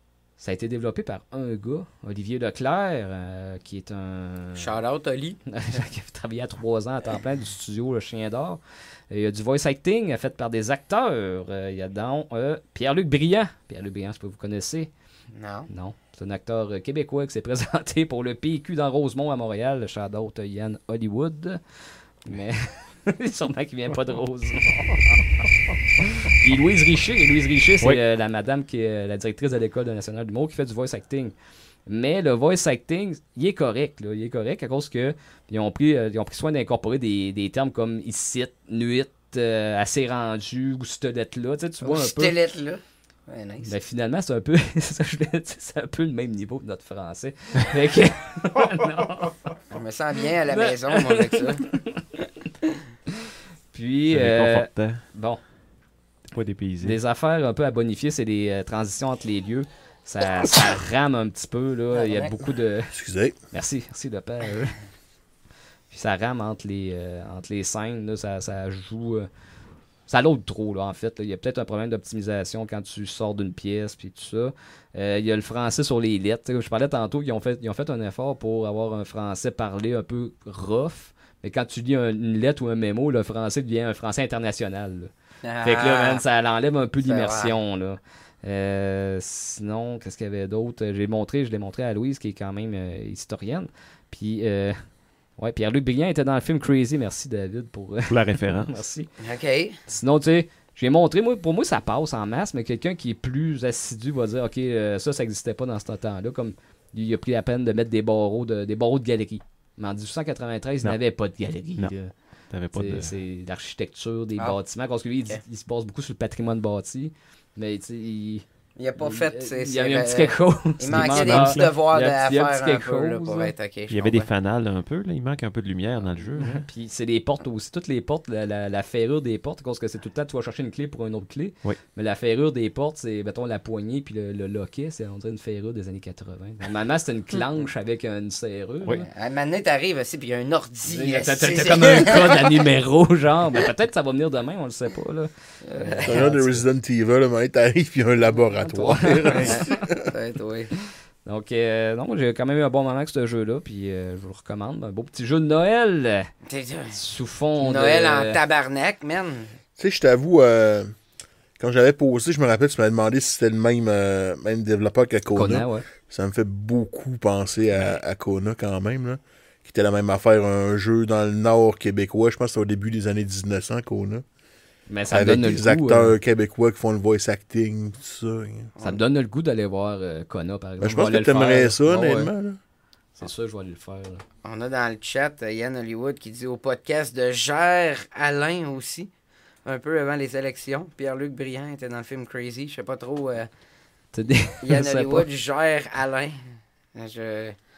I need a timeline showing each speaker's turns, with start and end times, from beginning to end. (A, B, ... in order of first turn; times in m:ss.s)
0:00.4-0:04.7 A
0:04.6-0:05.4 B
0:05.5-0:14.9 A
0:15.3-0:15.7 B
0:15.7-0:21.6 A
0:22.2-0:25.2 A
0:26.3-0:31.3 A
0:31.9-0:42.3 A
0:41.8-0:43.7 B
0:43.6-0:49.5 A
0:49.7-0:51.7 B
0:50.5-0:52.0 A
0:53.7-0:55.4 A
0:54.1-0:55.0 C
0:56.3-0:57.0 C
0:56.8-1:02.9 A
1:01.9-1:02.3 B
1:02.9-1:03.4 D
1:03.5-1:04.8 A
1:05.9-1:09.3 A
1:10.1-1:25.1 A
1:25.4-1:26.2 B
1:25.6-1:34.8 A
1:27.0-1:27.5 B
1:35.4-1:39.1 A
1:38.1-1:38.8 C
1:39.2-1:39.8 B
1:39.9-1:52.1 A
1:52.5-1:53.1 C
1:52.7-1:58.4 A
1:58.8-2:04.3 B
1:59.0-2:03.5 A
2:00.9-2:01.8 C
2:03.9-2:06.6 C
2:06.4-2:19.1 A
2:18.9-2:22.6 B
2:20.8-2:26.6 A
2:25.7-2:26.2 B
2:26.0-2:30.0 D
2:28.6-2:29.7 A
2:29.4-2:30.7 B
2:31.2-2:36.3 A
2:36.5-2:37.0 B
2:36.9-2:38.4 A
2:37.6-2:39.5 B
2:39.8-2:40.9 D
2:41.6-2:54.2 D
2:45.3-2:45.8 A
2:54.9-2:56.2 A
2:55.1-2:58.7 D
2:58.8-3:02.3 A
3:00.8-3:02.6 D
3:03.2-3:04.2 A
3:04.4-3:09.1 B
3:09.6-3:13.5 B
3:14.1-3:15.3 A
3:14.6-3:16.4 B
3:16.9-3:17.6 B